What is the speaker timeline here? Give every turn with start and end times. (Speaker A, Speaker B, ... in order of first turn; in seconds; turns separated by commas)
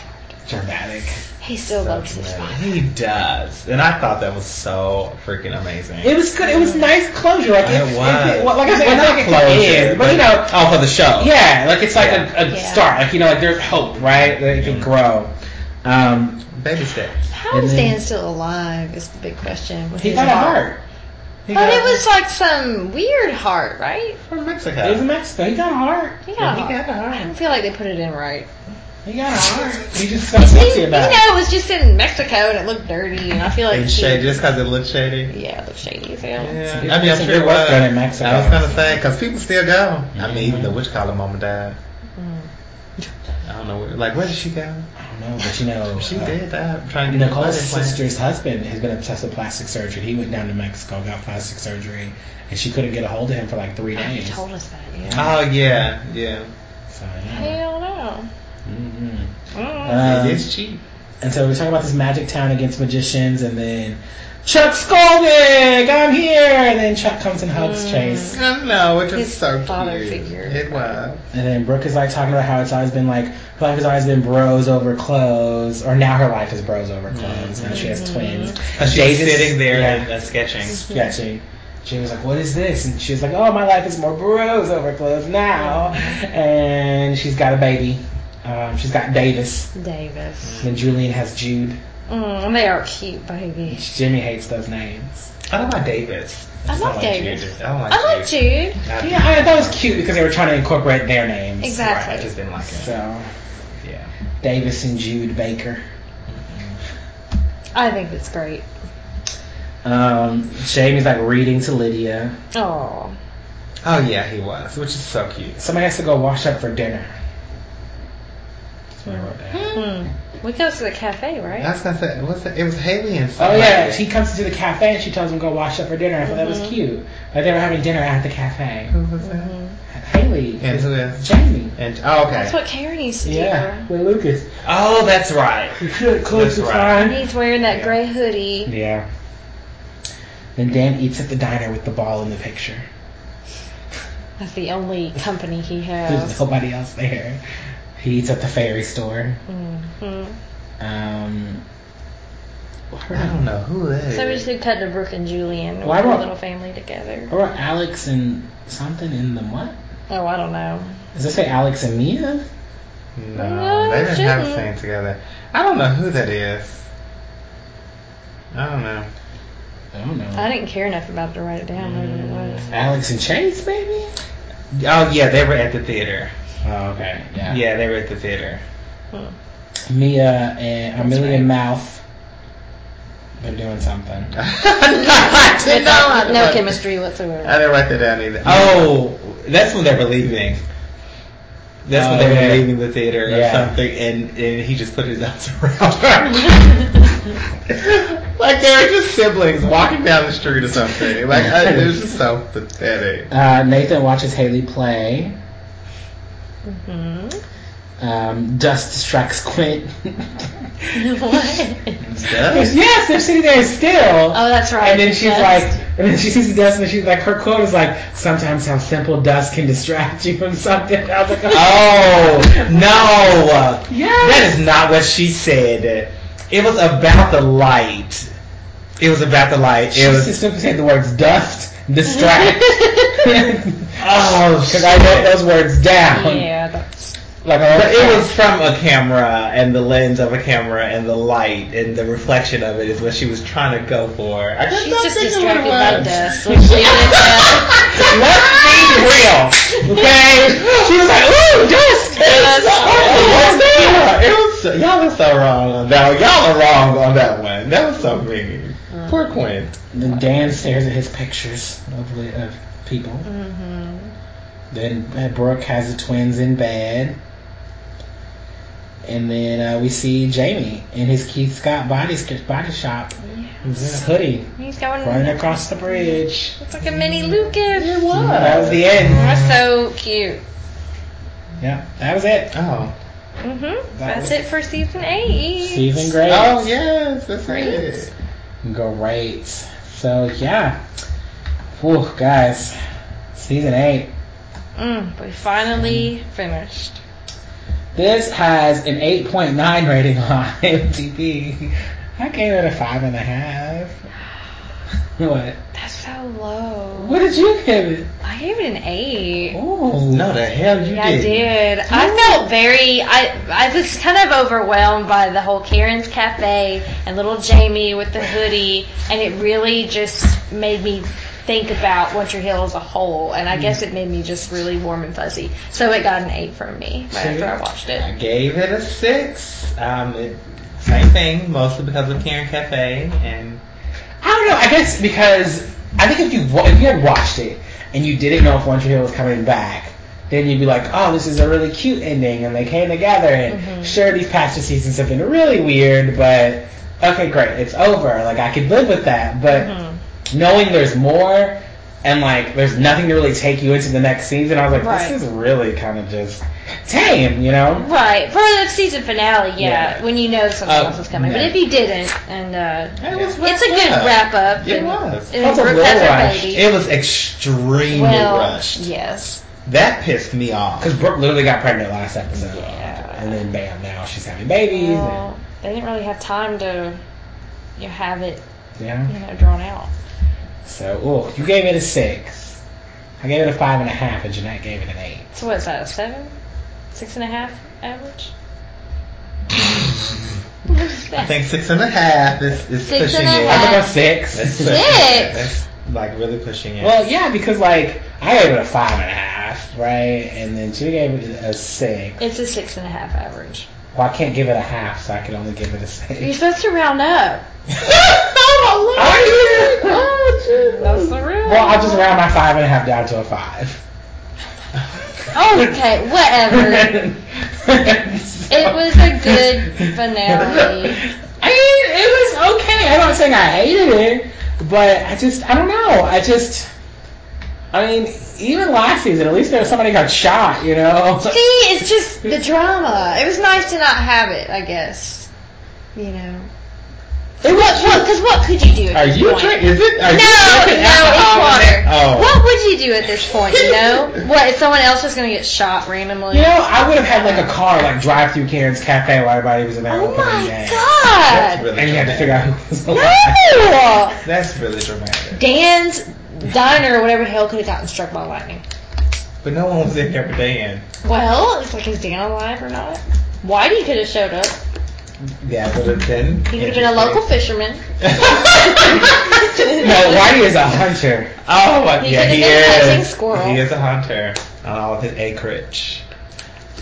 Speaker A: 0.5-1.2, Speaker B: 1.4-2.7, Speaker C: 1.7-6.2, Speaker A: 6.0-15.3, Speaker B: 6.4-6.8, Speaker C: 7.6-11.3, Speaker C: 11.9-12.3, Speaker B: 12.5-12.9, Speaker C: 14.1-14.9, Speaker A: 15.8-16.5, Speaker C: 16.5-17.2, Speaker B: 17.3-20.7, Speaker A: 17.5-18.0, Speaker A: 20.0-20.8, Speaker A: 21.5-22.0, Speaker B: 21.5-24.2, Speaker C: 21.6-21.8, Speaker C: 24.3-25.1, Speaker A: 24.8-26.2, Speaker B: 26.2-28.5, Speaker C: 26.4-27.3, Speaker A: 29.0-31.2, Speaker B: 30.4-34.4, Speaker C: 33.7-35.3, Speaker B: 35.3-36.6, Speaker C: 36.4-41.8, Speaker A: 36.6-38.8, Speaker A: 40.1-40.7, Speaker B: 42.2-42.5, Speaker C: 43.4-44.9, Speaker A: 45.0-46.4, Speaker C: 45.9-48.0, Speaker A: 47.0-54.4, Speaker B: 53.9-55.3, Speaker A: 55.0-55.8, Speaker C: 55.1-56.5, Speaker A: 56.9-57.6, Speaker B: 57.3-58.3, Speaker A: 58.6-59.3, Speaker B: 59.5-60.0, Speaker A: 59.8-60.5, Speaker C: 59.9-60.8, Speaker A: 61.2-68.4, Speaker B: 67.5-68.4, Speaker C: 68.3-71.2, Speaker B: 69.1-71.1, Speaker A: 71.3-80.1, Speaker C: 77.1-78.0, Speaker B: 77.7-78.6, Speaker C: 78.8-80.8, Speaker A: 80.8-89.7, Speaker B: 85.6-86.2, Speaker B: 89.7-90.6, Speaker C: 90.4-90.8, Speaker A: 90.6-91.8, Speaker B: 92.1-93.8, Speaker A: 93.7-95.3, Speaker C: 95.5-100.1, Speaker B: 96.7-98.8, Speaker A: 99.0-102.0, Speaker B: 101.6-102.3, Speaker C: 101.8-102.9, Speaker A: 102.7-103.2, Speaker C: 103.8-104.1, Speaker A: 104.4-105.8, Speaker C: 106.3-106.8, Speaker B: 107.7-108.7, Speaker A: 109.8-112.3, Speaker B: 112.5-113.2, Speaker C: 113.8-115.6, Speaker A: 115.6-117.1, Speaker A: 119.0-119.9, Speaker B: 119.1-121.7, Speaker C: 119.5-119.8, Speaker C: 121.6-124.0, Speaker A: 123.4-128.9, Speaker B: 126.2-126.7, Speaker C: 128.9-129.5, Speaker B: 129.2-129.8, Speaker A: 129.9-131.7, Speaker C: 130.6-132.5, Speaker B: 132.3-133.9, Speaker A: 133.2-134.5, Speaker C: 134.6-137.0, Speaker A: 135.8-137.2, Speaker B: 137.0-138.7, Speaker C: 137.7-138.0, Speaker A: 138.7-139.1, Speaker A: 140.6-142.8, Speaker B: 144.4-146.4, Speaker A: 146.1-147.4, Speaker A: 148.0-149.4, Speaker B: 149.5-150.4, Speaker A: 150.8-151.6, Speaker A: 152.9-153.4, Speaker C: 153.1-154.5, Speaker B: 154.1-157.3, Speaker A: 155.8-156.2, Speaker A: 157.3-159.8, Speaker B: 160.1-160.9, Speaker A: 161.1-162.4, Speaker C: 163.2-166.8, Speaker B: 163.3-164.7, Speaker C: 168.5-169.1, Speaker A: 169.9-170.5, Speaker B: 170.3-172.7, Speaker C: 171.8-172.8, Speaker A: 172.7-174.1, Speaker C: 174.7-176.3, Speaker A: 176.6-177.6, Speaker C: 177.4-178.6, Speaker A: 179.9-182.0, Speaker B: 181.0-181.5, Speaker A: 183.4-184.3, Speaker C: 184.3-186.8, Speaker B: 185.6-187.6, Speaker C: 187.4-190.6, Speaker A: 188.4-189.0, Speaker C: 191.8-196.9, Speaker A: 191.9-193.8, Speaker C: 197.7-203.3, Speaker A: 201.4-201.9, Speaker A: 203.3-205.3, Speaker B: 206.6-207.4, Speaker A: 208.0-211.0, Speaker B: 210.9-212.0, Speaker A: 212.0-223.3, Speaker C: 212.1-212.8, Speaker B: 214.3-215.8, Speaker C: 221.5-228.3, Speaker A: 223.9-224.6, Speaker C: 229.0-230.4, Speaker A: 229.9-234.0, Speaker B: 232.4-233.2, Speaker C: 234.0-235.4, Speaker A: 234.6-236.5, Speaker B: 236.1-237.2, Speaker A: 237.4-238.3, Speaker C: 237.7-247.2, Speaker B: 244.7-247.8, Speaker A: 245.9-254.2, Speaker B: 249.7-250.0, Speaker B: 252.1-253.6, Speaker C: 252.7-259.8, Speaker B: 258.9-259.2, Speaker A: 259.9-263.3, Speaker B: 260.0-260.5, Speaker B: 263.2-264.1, Speaker A: 264.7-267.2, Speaker A: 269.0-274.5, Speaker B: 273.2-278.1, Speaker C: 273.7-274.0, Speaker A: 275.0-276.6, Speaker C: 277.7-279.1, Speaker A: 278.1-279.5, Speaker B: 279.1-280.4, Speaker A: 281.6-282.5, Speaker C: 282.5-282.9, Speaker B: 283.4-286.2, Speaker A: 283.9-284.4, Speaker A: 285.6-286.7, Speaker C: 286.2-288.1, Speaker B: 287.4-288.0, Speaker A: 288.6-290.8, Speaker A: 291.8-292.8, Speaker A: 293.3-294.1, Speaker B: 294.8-297.0, Speaker A: 295.8-296.1, Speaker A: 297.9-303.9, Speaker A: 305.2-305.6, Speaker B: 305.7-307.3, Speaker A: 306.9-308.1, Speaker B: 308.2-309.6, Speaker A: 309.5-310.4, Speaker C: 309.9-311.6, Speaker B: 310.8-328.1, Speaker A: 312.0-312.3, Speaker A: 327.1-327.5, Speaker C: 328.0-333.6, Speaker A: 334.2-349.7, Speaker B: 343.5-344.0, Speaker B: 349.5-350.0, Speaker A: 350.3-357.9, Speaker B: 354.7-355.2, Speaker B: 357.8-366.7, Speaker A: 359.6-360.0, Speaker A: 360.7-361.6, Speaker C: 363.0-365.4, Speaker A: 363.1-363.3, Speaker A: 365.4-366.6, Speaker C: 366.5-368.9, Speaker B: 367.9-369.4, Speaker C: 369.6-370.9, Speaker A: 370.8-375.2, Speaker B: 372.4-373.4, Speaker B: 374.7-377.0, Speaker B: 377.8-378.4, Speaker A: 378.8-379.1, Speaker B: 379.1-379.9, Speaker A: 380.6-382.6, Speaker A: 383.2-385.3, Speaker B: 385.3-386.3, Speaker B: 386.9-388.3, Speaker B: 390.7-391.4, Speaker C: 391.1-397.0, Speaker B: 392.8-393.9, Speaker A: 393.4-395.0, Speaker B: 394.6-395.4, Speaker A: 396.8-402.2, Speaker B: 402.2-403.7, Speaker A: 403.9-406.3, Speaker B: 406.2-407.4, Speaker C: 407.8-411.1, Speaker A: 408.9-410.2, Speaker B: 410.7-412.2, Speaker A: 411.4-413.8, Speaker B: 415.3-417.1, Speaker A: 416.5-426.7, Speaker B: 418.5-421.0, Speaker A: 427.7-431.4, Speaker B: 431.2-435.3, Speaker B: 435.9-436.5, Speaker A: 437.4-438.1, Speaker B: 437.4-447.5, Speaker C: 438.9-441.0, Speaker A: 440.4-441.8, Speaker C: 441.7-442.4, Speaker C: 443.5-444.0, Speaker A: 446.3-450.9, Speaker B: 449.9-451.6, Speaker C: 451.2-452.5, Speaker A: 451.7-453.5, Speaker B: 452.9-454.2, Speaker C: 454.2-455.4, Speaker B: 455.4-458.6, Speaker C: 459.4-460.9, Speaker B: 461.0-464.6, Speaker C: 465.4-467.2, Speaker B: 466.5-470.3, Speaker C: 468.0-469.0, Speaker A: 469.8-471.3, Speaker C: 471.4-476.0, Speaker B: 472.0-473.6